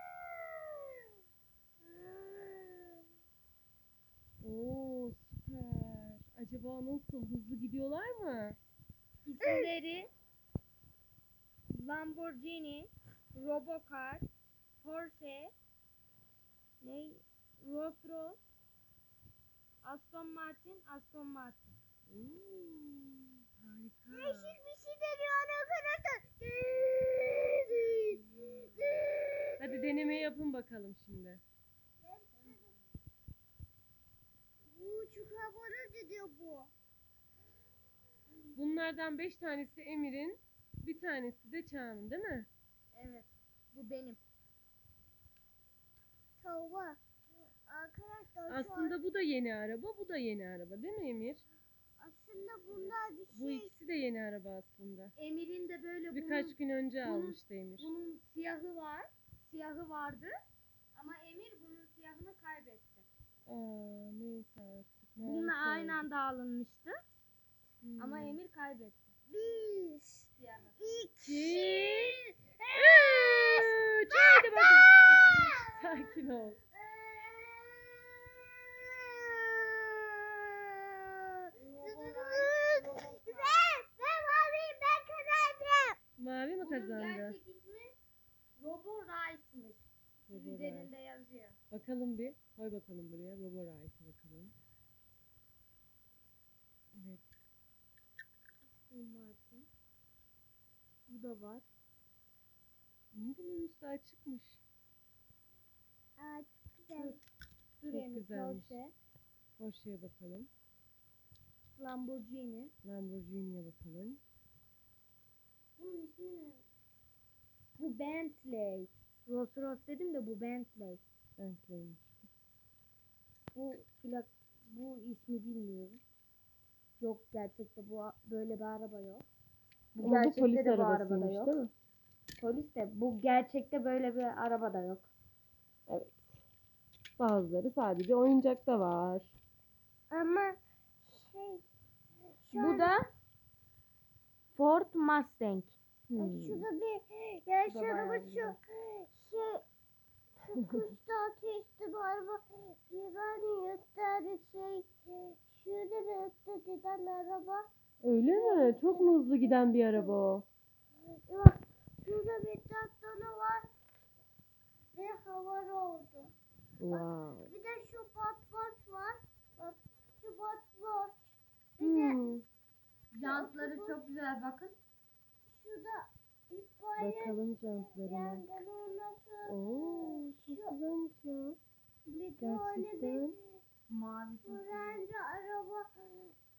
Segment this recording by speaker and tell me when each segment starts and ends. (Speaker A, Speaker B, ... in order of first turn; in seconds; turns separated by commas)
Speaker A: 2.3-2.7, Speaker B: 4.4-8.6, Speaker C: 9.2-10.1, Speaker C: 11.7-14.3, Speaker C: 14.8-15.5, Speaker C: 16.8-18.4, Speaker C: 19.8-21.8, Speaker B: 22.1-24.6, Speaker A: 24.1-29.9, Speaker C: 28.1-28.8, Speaker B: 29.6-31.4, Speaker A: 32.0-32.7, Speaker A: 34.7-36.7, Speaker B: 38.5-42.5, Speaker C: 42.9-44.2, Speaker A: 46.4-47.0, Speaker A: 47.7-48.9, Speaker B: 48.5-51.4, Speaker A: 52.0-53.7, Speaker B: 52.7-55.1, Speaker C: 55.2-60.3, Speaker B: 56.1-57.9, Speaker C: 60.9-63.0, Speaker B: 63.5-66.0, Speaker C: 65.2-67.0, Speaker B: 67.8-68.4, Speaker C: 68.0-69.1, Speaker A: 69.3-70.3, Speaker C: 70.3-71.0, Speaker A: 70.8-72.2, Speaker B: 71.2-76.6, Speaker A: 72.7-75.8, Speaker A: 76.8-86.0, Speaker C: 81.5-83.6, Speaker B: 86.2-87.3, Speaker C: 86.6-87.9, Speaker C: 88.6-91.6, Speaker B: 90.3-90.9, Speaker B: 91.7-94.5, Speaker B: 96.9-97.2, Speaker C: 98.7-99.7, Speaker C: 101.1-101.6, Speaker B: 103.1-104.6, Speaker A: 106.2-107.2, Speaker C: 106.9-107.2, Speaker C: 107.8-108.9, Speaker B: 107.9-108.8, Speaker B: 109.6-110.5, Speaker C: 111.7-112.7, Speaker B: 112.8-114.2, Speaker C: 115.8-116.6, Speaker C: 117.8-121.0, Speaker B: 121.4-122.3, Speaker C: 123.5-126.0, Speaker C: 127.0-129.2, Speaker C: 129.9-131.5, Speaker B: 130.0-131.7, Speaker C: 132.4-135.1, Speaker B: 135.9-136.2, Speaker B: 137.2-139.3, Speaker A: 140.1-141.6, Speaker A: 142.4-142.9, Speaker C: 142.5-143.0, Speaker C: 144.5-145.8, Speaker B: 146.1-146.7, Speaker A: 146.2-149.6, Speaker C: 147.7-148.6, Speaker A: 150.4-157.6, Speaker B: 158.0-160.4, Speaker A: 158.3-160.2, Speaker A: 161.3-163.6, Speaker A: 164.9-166.3, Speaker B: 166.8-167.5, Speaker A: 166.9-172.2, Speaker B: 171.8-172.4, Speaker C: 173.1-174.8, Speaker A: 173.2-173.9, Speaker A: 175.5-180.7, Speaker B: 177.0-178.4, Speaker B: 179.4-181.6, Speaker A: 182.1-183.3, Speaker B: 182.4-183.3, Speaker C: 183.9-185.0, Speaker A: 184.4-186.3